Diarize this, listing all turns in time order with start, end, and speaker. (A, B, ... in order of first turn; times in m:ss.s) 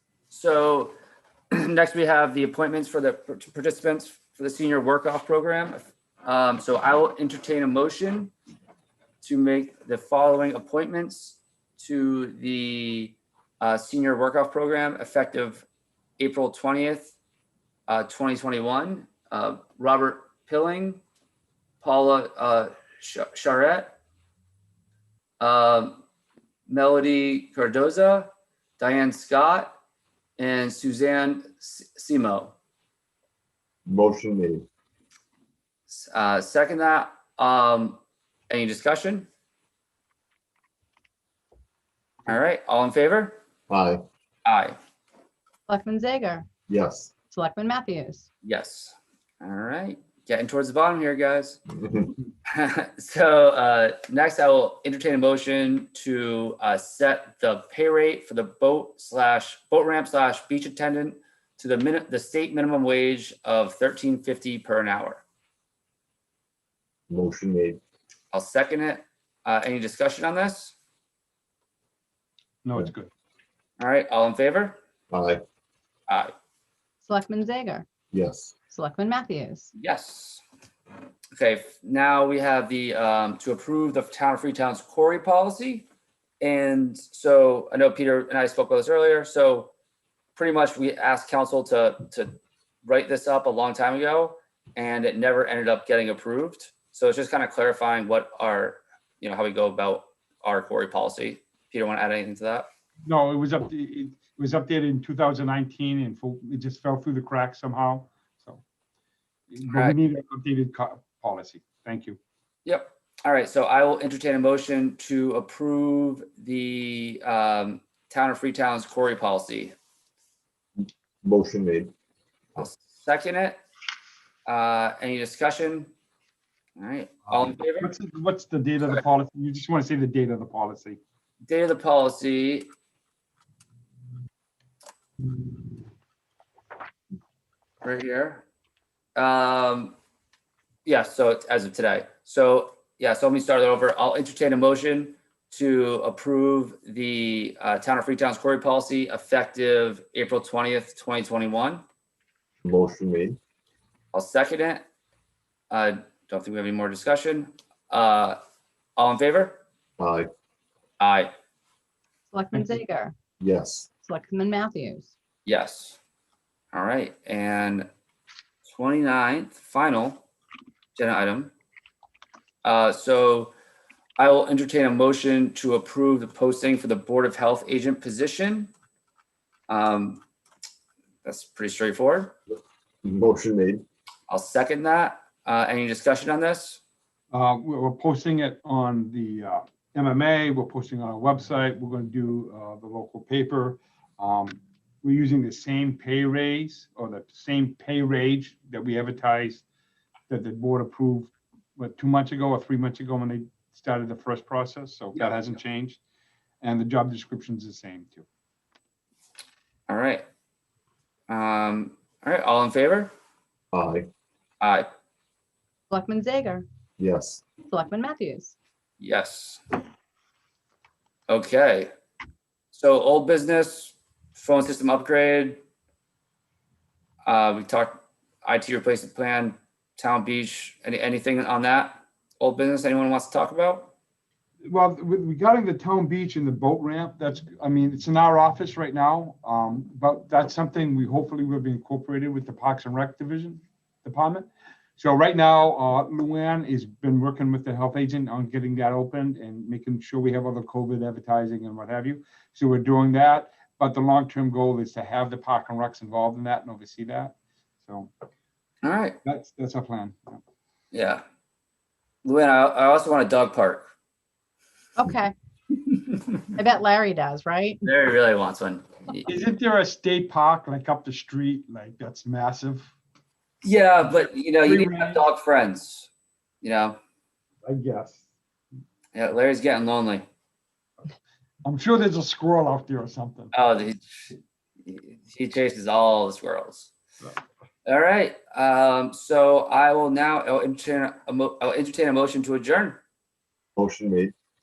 0:00.3-0:00.9 A
0:01.5-0:08.3 A
0:09.2-0:15.7 A
0:16.2-0:17.2 A
0:17.9-0:21.0 A
0:21.8-0:24.0 A
0:25.4-0:26.0 A
0:26.7-0:29.8 A
0:30.4-0:32.6 A
0:33.9-0:34.7 B
0:35.9-0:39.3 A
0:42.3-0:43.4 A
0:43.7-0:44.0 B
0:44.5-0:44.8 A
0:45.7-0:46.5 C
0:46.7-0:47.1 B
0:47.3-0:48.3 C
0:48.4-0:51.6 A
0:51.8-0:52.1 B
0:52.5-1:05.2 A
1:07.1-1:07.8 B
1:08.3-1:10.8 A
1:12.6-1:13.1 D
1:13.8-1:14.8 A
1:15.1-1:15.4 B
1:17.0-1:17.9 C
1:18.1-1:18.6 B
1:18.7-1:19.7 C
1:19.8-1:20.4 A
1:21.4-1:25.9 A
1:26.4-1:29.7 A
1:30.4-1:42.7 A
1:43.0-1:48.6 D
1:49.5-1:52.2 D
1:49.7-1:50.0 A
1:52.6-1:59.8 A
2:00.8-2:01.9 B
2:02.6-2:03.6 A
2:04.5-2:05.9 A
2:06.8-2:07.9 A
2:07.8-2:11.0 D
2:11.5-2:12.7 A
2:17.8-2:18.4 A
2:19.2-2:20.0 A
2:20.8-2:31.8 A
2:32.6-2:33.4 B
2:34.1-2:34.8 A
2:35.7-2:38.4 A
2:39.0-2:39.6 A
2:40.0-2:40.3 B
2:41.0-2:41.3 A
2:42.3-2:43.2 C
2:43.4-2:43.9 B
2:44.0-2:45.1 C
2:45.5-2:46.0 A
2:46.7-2:47.9 A
2:48.6-2:50.2 A
2:51.0-2:51.5 A
2:52.6-2:53.5 A
2:54.2-2:58.7 A
2:59.7-3:00.2 A
3:01.2-3:02.4 A
3:03.0-3:03.8 B
3:04.3-3:06.8 A
3:07.3-3:19.6 D
3:20.3-3:26.0 D
3:26.6-3:28.2 D
3:29.9-3:30.2 A
3:31.3-3:33.1 A
3:33.7-3:34.1 B
3:34.6-3:34.9 A
3:35.9-3:36.7 C
3:37.0-3:37.4 B
3:37.6-3:38.6 C
3:39.0-3:39.6 A
3:41.3-3:41.9 A
3:42.7-3:45.6 A
3:47.3-3:53.9 A
3:54.6-4:18.1 D
4:18.8-4:19.2 A
4:19.2-4:20.4 D
4:20.9-4:21.2 A
4:22.2-4:23.9 A
4:25.0-4:25.3 C
4:26.5-4:27.8 C
4:27.8-4:29.2 A
4:29.2-4:32.9 D
4:33.6-4:36.1 A
4:34.6-4:35.2 D
4:36.6-4:37.0 A
4:37.6-4:38.2 D
4:39.1-4:40.3 A
4:41.6-4:43.5 D
4:43.5-4:44.0 A
4:44.8-4:46.9 A
4:47.9-4:53.0 A
4:53.8-4:54.3 B